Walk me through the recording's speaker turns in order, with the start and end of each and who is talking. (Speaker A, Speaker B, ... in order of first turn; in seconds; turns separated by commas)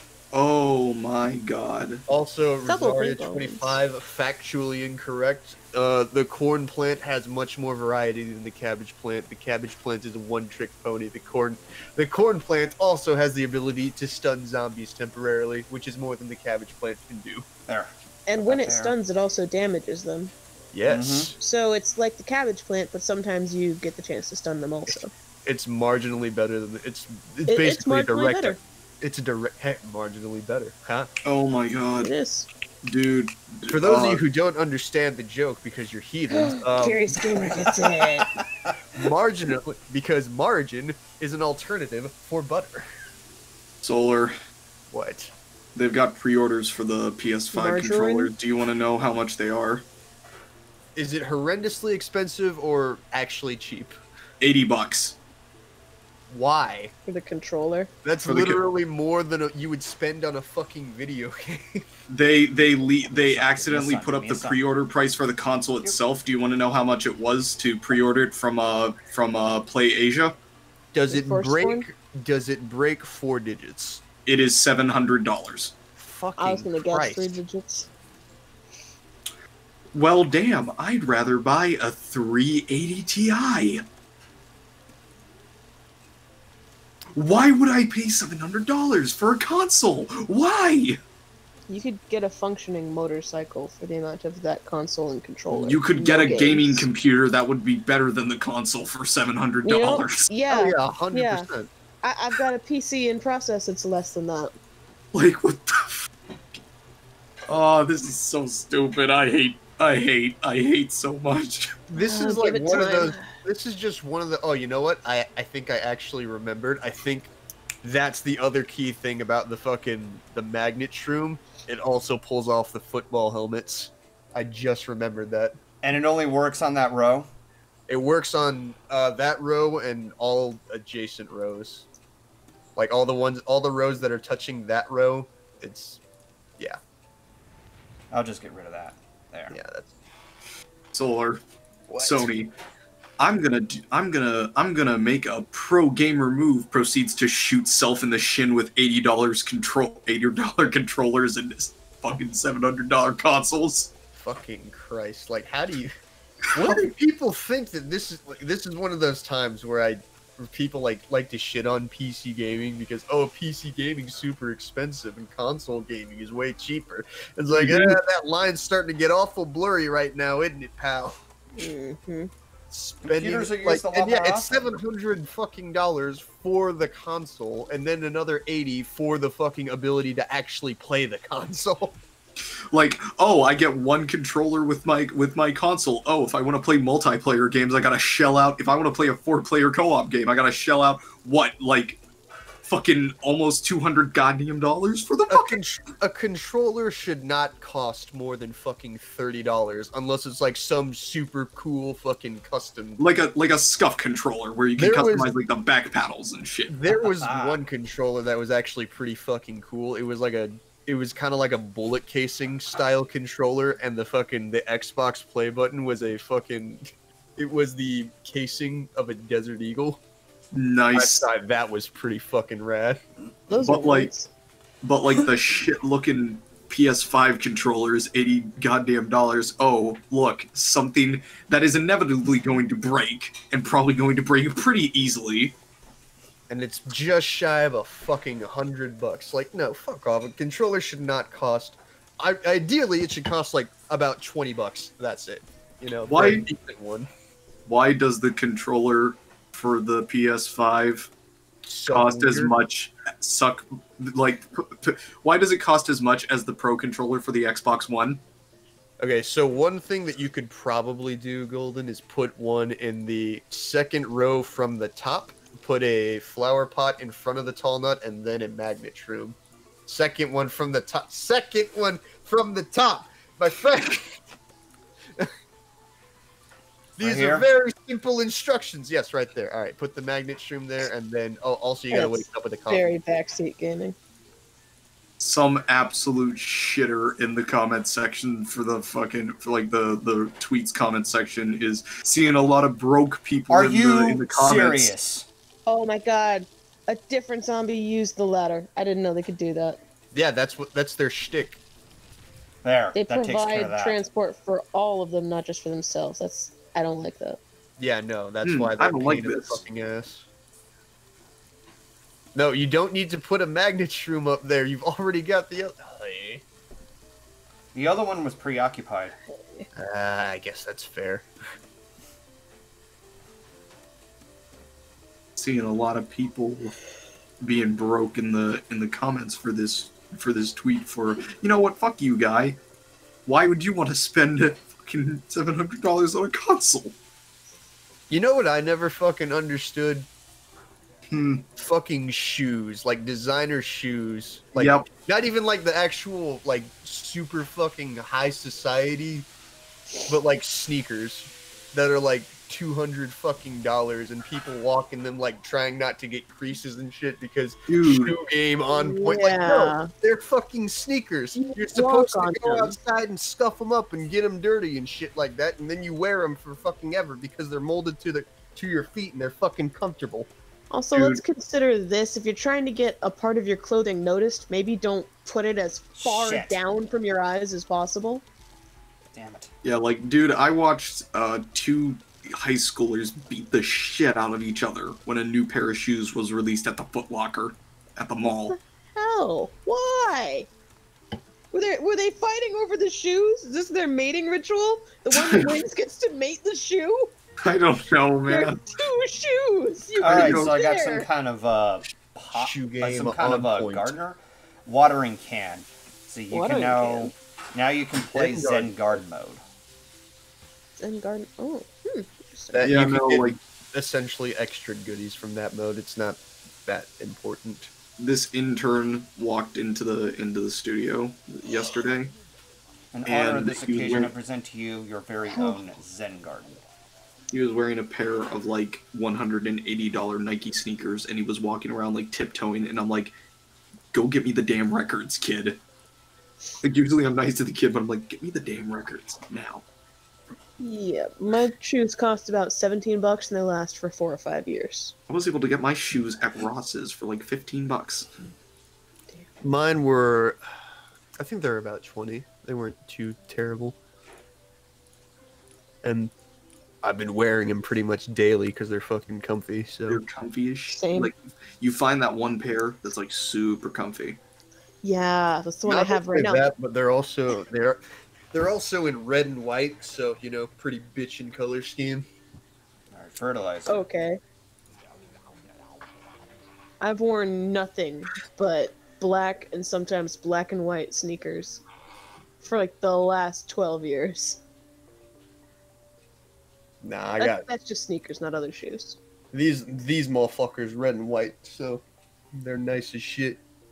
Speaker A: 0.3-2.0, Speaker B: 2.1-17.4, Speaker C: 2.6-3.8, Speaker D: 17.7-18.9, Speaker C: 18.3-20.3, Speaker B: 20.7-21.3, Speaker D: 20.9-21.3, Speaker C: 21.4-25.1, Speaker B: 24.9-31.1, Speaker C: 27.5-28.6, Speaker A: 31.2-32.1, Speaker C: 32.0-32.5, Speaker A: 32.8-34.2, Speaker B: 33.7-37.4, Speaker C: 36.3-38.3, Speaker D: 37.4-38.2, Speaker B: 38.9-42.9, Speaker A: 43.8-44.3, Speaker B: 44.9-45.3, Speaker A: 45.7-49.8, Speaker C: 47.5-48.3, Speaker B: 51.0-53.9, Speaker A: 54.4-55.2, Speaker B: 56.3-56.9, Speaker C: 57.0-57.9, Speaker B: 58.0-61.8, Speaker A: 58.2-58.6, Speaker A: 62.1-70.3, Speaker D: 63.1-64.7, Speaker B: 70.9-74.0, Speaker C: 71.1-71.8, Speaker A: 74.2-75.7, Speaker B: 76.0-77.4, Speaker C: 76.4-77.9, Speaker A: 79.9-83.8, Speaker A: 87.1-91.0, Speaker C: 91.7-96.9, Speaker A: 95.5-100.2, Speaker C: 99.6-101.5, Speaker B: 100.5-101.7, Speaker C: 102.0-104.5, Speaker A: 105.1-106.1, Speaker A: 107.5-111.8, Speaker B: 111.9-117.3, Speaker C: 111.9-113.2, Speaker B: 117.8-125.6, Speaker D: 125.8-127.3, Speaker B: 127.9-131.9, Speaker B: 132.8-136.0, Speaker D: 138.1-139.5, Speaker B: 139.5-139.9, Speaker A: 140.9-141.4, Speaker B: 141.9-142.3, Speaker A: 142.0-142.5, Speaker A: 143.2-153.9, Speaker B: 154.1-155.9, Speaker B: 156.5-171.2, Speaker A: 156.5-156.8, Speaker A: 167.5-168.0, Speaker C: 171.6-172.3, Speaker B: 172.7-182.0, Speaker D: 173.0-174.6, Speaker A: 182.7-192.0, Speaker A: 192.6-195.6, Speaker B: 195.3-203.0, Speaker A: 203.0-206.8, Speaker B: 204.8-205.3, Speaker B: 206.7-220.0, Speaker D: 206.9-207.6, Speaker A: 220.5-221.2, Speaker B: 220.9-223.0, Speaker C: 223.5-224.3, Speaker A: 223.6-224.1, Speaker A: 224.8-235.5, Speaker B: 236.5-247.1, Speaker A: 246.1-246.4, Speaker A: 247.7-251.1, Speaker B: 251.6-252.6, Speaker A: 251.9-258.2, Speaker B: 259.0-274.2, Speaker B: 277.0-282.9, Speaker D: 277.0-277.5, Speaker C: 281.9-283.9, Speaker A: 285.2-294.9, Speaker D: 293.5-295.3, Speaker C: 295.6-299.8, Speaker B: 300.1-301.6, Speaker D: 302.6-304.0, Speaker C: 302.9-307.4, Speaker B: 307.8-310.3, Speaker A: 308.4-309.6, Speaker B: 312.3-316.4, Speaker D: 317.7-319.1, Speaker B: 319.7-321.3, Speaker A: 325.4-326.8, Speaker A: 327.4-332.6, Speaker A: 333.2-336.9, Speaker B: 338.1-340.1, Speaker A: 341.1-341.4, Speaker B: 341.6-349.3, Speaker A: 344.6-344.9, Speaker B: 350.1-370.3, Speaker A: 357.7-358.1, Speaker C: 358.7-359.9, Speaker C: 361.4-362.8, Speaker C: 370.7-378.2, Speaker A: 370.9-371.2, Speaker D: 375.9-376.6, Speaker D: 379.1-379.5, Speaker A: 379.6-388.5, Speaker C: 388.2-390.5, Speaker C: 391.5-397.1, Speaker A: 395.1-395.6, Speaker A: 397.4-398.6, Speaker C: 398.3-401.1, Speaker D: 400.0-409.4, Speaker A: 400.1-400.5, Speaker B: 402.3-404.0, Speaker C: 406.3-407.1, Speaker B: 408.1-409.0, Speaker C: 410.8-412.7, Speaker B: 412.5-417.7, Speaker A: 412.6-413.4, Speaker A: 418.0-422.1, Speaker D: 422.9-426.6, Speaker A: 423.0-424.1, Speaker C: 425.3-425.6, Speaker A: 427.3-433.1, Speaker A: 433.9-435.6, Speaker A: 436.6-439.6, Speaker C: 440.6-444.9, Speaker A: 445.1-448.1, Speaker B: 449.4-450.4, Speaker B: 451.2-453.8, Speaker B: 455.8-456.1, Speaker B: 456.8-460.0, Speaker A: 459.9-464.2, Speaker C: 460.7-461.1, Speaker C: 464.8-466.5, Speaker B: 465.6-467.8, Speaker B: 468.3-472.1, Speaker D: 472.9-473.9, Speaker C: 473.6-474.2, Speaker C: 476.8-481.6, Speaker C: 482.4-484.4, Speaker B: 486.8-487.4, Speaker C: 487.2-489.0, Speaker B: 489.3-491.8, Speaker B: 492.4-493.4